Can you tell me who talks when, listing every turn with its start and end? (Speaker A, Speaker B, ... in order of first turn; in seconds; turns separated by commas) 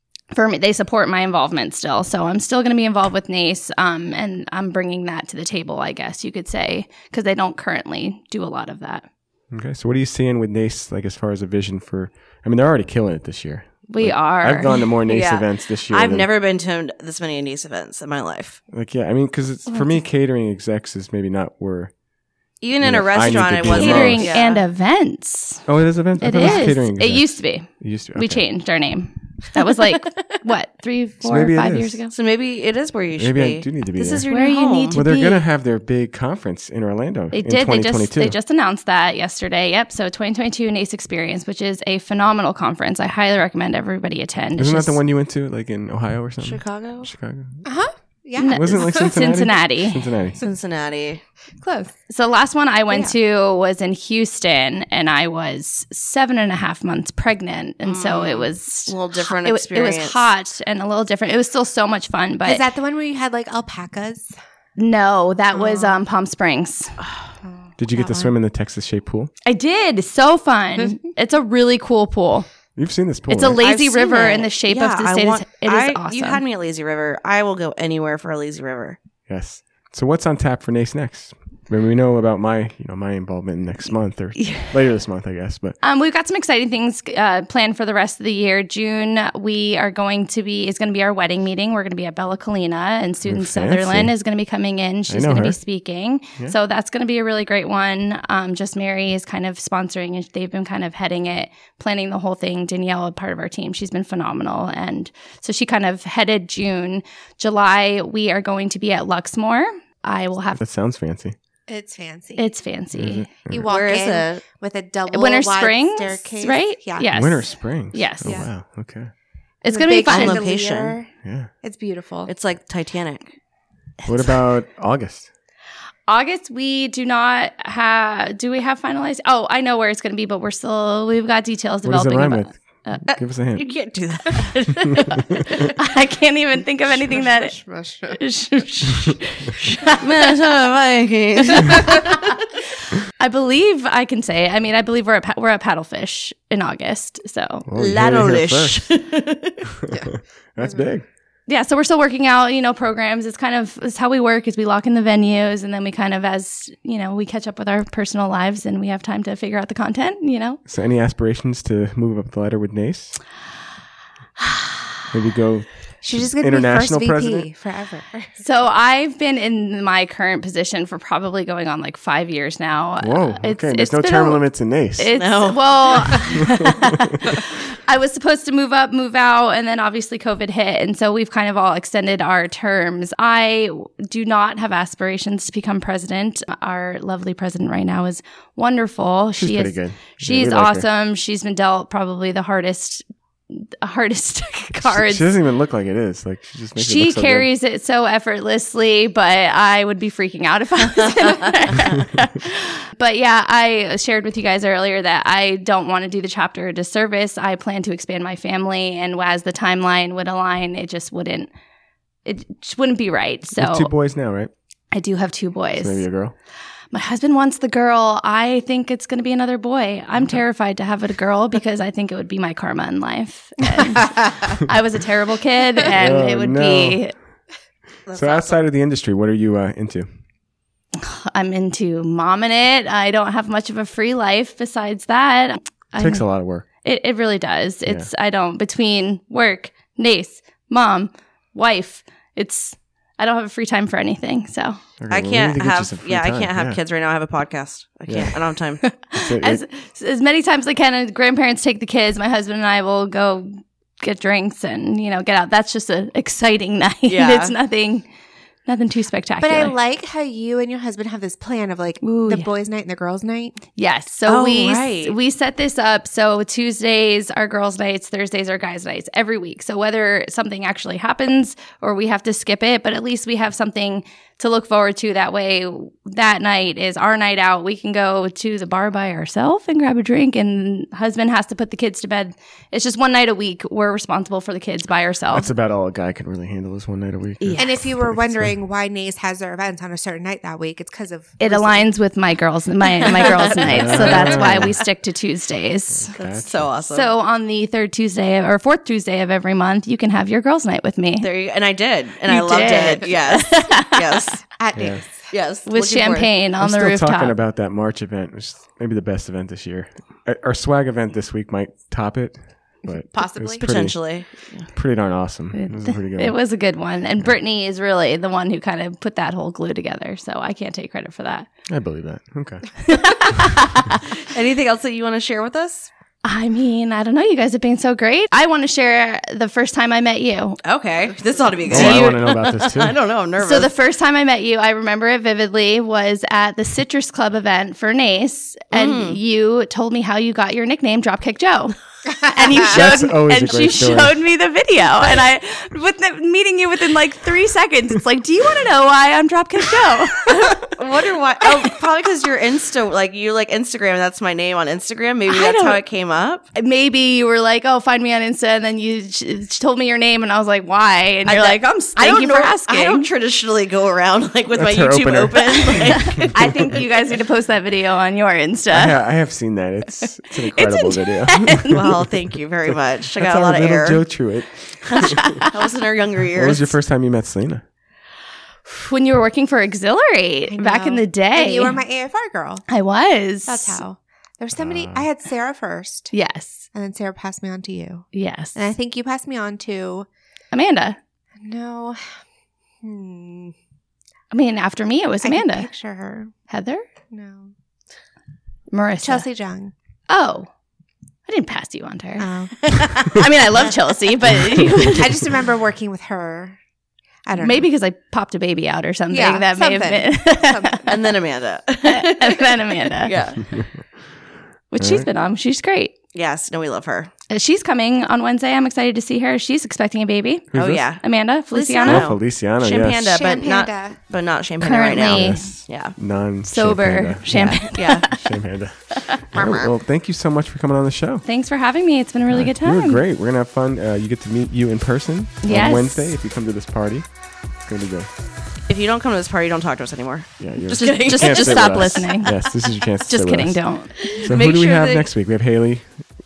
Speaker A: 0.3-9.1, Speaker B: 9.5-16.3, Speaker A: 13.9-15.0, Speaker C: 15.1-18.6, Speaker B: 18.7-21.9, Speaker C: 22.6-24.6, Speaker B: 22.8-24.4, Speaker A: 23.7-25.6, Speaker B: 25.6-28.4, Speaker A: 26.2-32.1, Speaker B: 31.2-32.0, Speaker C: 32.1-35.0, Speaker B: 33.1-34.3, Speaker A: 34.3-35.4, Speaker B: 34.9-38.4, Speaker A: 37.3-45.0, Speaker B: 44.5-47.6, Speaker C: 46.4-47.1, Speaker D: 47.6-49.1, Speaker A: 48.4-50.1, Speaker B: 48.4-50.4, Speaker C: 50.4-51.2, Speaker D: 51.6-52.0, Speaker A: 52.1-62.6, Speaker C: 57.8-60.3, Speaker D: 62.4-64.3, Speaker A: 64.8-67.0, Speaker D: 65.5-66.0, Speaker D: 67.4-68.3, Speaker B: 67.8-69.3, Speaker A: 69.4-72.5, Speaker B: 72.8-73.6, Speaker A: 73.3-76.4, Speaker C: 73.6-79.0, Speaker B: 79.3-85.8, Speaker A: 84.4-84.7, Speaker A: 85.8-110.6, Speaker B: 93.2-94.1, Speaker B: 95.1-95.6, Speaker B: 110.5-111.3, Speaker D: 111.7-112.5, Speaker A: 112.4-113.3, Speaker B: 112.9-113.7, Speaker D: 113.5-117.1, Speaker C: 113.7-114.4, Speaker A: 115.1-118.4, Speaker B: 117.1-119.1, Speaker D: 118.2-118.5, Speaker A: 119.6-120.4, Speaker D: 119.7-122.3, Speaker C: 120.1-121.0, Speaker B: 121.2-121.5, Speaker C: 122.2-123.3, Speaker B: 124.0-125.3, Speaker A: 126.1-133.0, Speaker B: 131.8-133.7, Speaker C: 133.6-135.4, Speaker B: 134.9-135.5, Speaker A: 135.6-137.6, Speaker D: 137.1-138.2, Speaker A: 138.1-140.2, Speaker C: 140.0-142.3, Speaker A: 141.5-142.0, Speaker A: 143.2-147.7, Speaker B: 147.7-148.9, Speaker C: 147.8-149.6, Speaker B: 149.8-151.1, Speaker D: 149.9-150.9, Speaker A: 151.5-160.6, Speaker B: 160.7-163.2, Speaker B: 165.1-167.5, Speaker D: 166.0-168.3, Speaker A: 168.4-195.3, Speaker B: 173.0-175.1, Speaker C: 175.1-176.3, Speaker B: 189.3-190.8, Speaker B: 194.8-197.5, Speaker A: 196.8-211.5, Speaker A: 212.2-213.9, Speaker B: 213.5-214.5, Speaker A: 214.9-216.0, Speaker B: 215.7-216.3, Speaker A: 216.9-227.1, Speaker B: 225.8-227.0, Speaker C: 228.1-228.7, Speaker B: 228.1-230.1, Speaker A: 231.0-244.8, Speaker B: 235.9-236.7, Speaker B: 245.0-246.8, Speaker C: 245.1-248.8, Speaker B: 248.1-248.3, Speaker A: 248.8-258.0, Speaker B: 249.1-249.6, Speaker C: 257.1-257.5, Speaker A: 258.6-259.8, Speaker D: 259.4-263.6, Speaker A: 262.0-262.5, Speaker A: 263.8-285.5, Speaker C: 264.3-265.1, Speaker B: 285.3-288.5, Speaker D: 287.6-291.9, Speaker A: 291.4-296.1, Speaker C: 293.0-294.7, Speaker B: 293.6-294.8, Speaker B: 295.9-296.6, Speaker C: 296.1-297.1, Speaker A: 296.9-301.3, Speaker C: 301.2-304.4, Speaker A: 302.3-304.2, Speaker D: 304.6-305.3, Speaker B: 304.8-305.0, Speaker C: 305.3-306.3, Speaker A: 305.7-307.3, Speaker B: 306.6-314.0, Speaker D: 312.9-313.7, Speaker C: 313.6-314.7, Speaker B: 314.7-316.4, Speaker A: 315.5-321.5, Speaker B: 321.7-323.2, Speaker A: 322.9-324.0, Speaker C: 324.2-325.9, Speaker A: 326.2-330.6, Speaker C: 330.6-333.7, Speaker B: 331.7-332.9, Speaker A: 331.7-332.1, Speaker A: 333.4-350.7, Speaker C: 338.7-339.2, Speaker B: 342.7-344.2, Speaker C: 350.3-356.4, Speaker A: 355.3-355.8, Speaker A: 356.5-363.1, Speaker C: 361.2-366.8, Speaker B: 364.5-366.7, Speaker A: 366.1-368.9, Speaker B: 368.7-375.4, Speaker A: 370.4-371.9, Speaker C: 371.7-374.0, Speaker C: 375.4-376.8, Speaker B: 376.3-377.6, Speaker A: 378.7-381.8, Speaker D: 380.5-382.6, Speaker A: 382.7-383.8, Speaker D: 383.4-386.1, Speaker B: 384.6-385.1, Speaker A: 386.1-386.7, Speaker D: 386.7-390.1, Speaker A: 388.1-388.6, Speaker A: 390.5-391.0, Speaker D: 391.4-392.0, Speaker D: 392.8-393.5, Speaker A: 394.3-395.7, Speaker D: 395.2-396.3, Speaker A: 396.5-396.8, Speaker D: 397.1-397.5, Speaker A: 398.7-399.3, Speaker D: 399.0-399.7, Speaker A: 400.1-400.5, Speaker A: 401.2-405.2, Speaker D: 402.2-403.2, Speaker D: 404.6-406.6, Speaker D: 407.2-407.7, Speaker A: 407.4-411.0, Speaker D: 409.1-410.8, Speaker C: 410.9-413.5, Speaker A: 411.8-413.1, Speaker A: 414.7-415.9, Speaker B: 414.8-415.1, Speaker C: 416.1-417.1, Speaker A: 417.3-422.1, Speaker B: 420.5-420.8, Speaker C: 420.5-425.9, Speaker B: 421.9-423.1, Speaker D: 423.1-424.0, Speaker A: 424.6-425.6, Speaker B: 425.1-431.2, Speaker A: 426.5-428.3, Speaker C: 427.3-428.1, Speaker C: 429.3-429.7, Speaker A: 431.2-433.0, Speaker B: 432.3-437.1, Speaker A: 435.4-436.1, Speaker B: 437.6-438.1, Speaker C: 438.7-442.4, Speaker B: 440.4-445.9, Speaker A: 440.8-442.4, Speaker A: 443.1-444.1, Speaker C: 444.1-445.1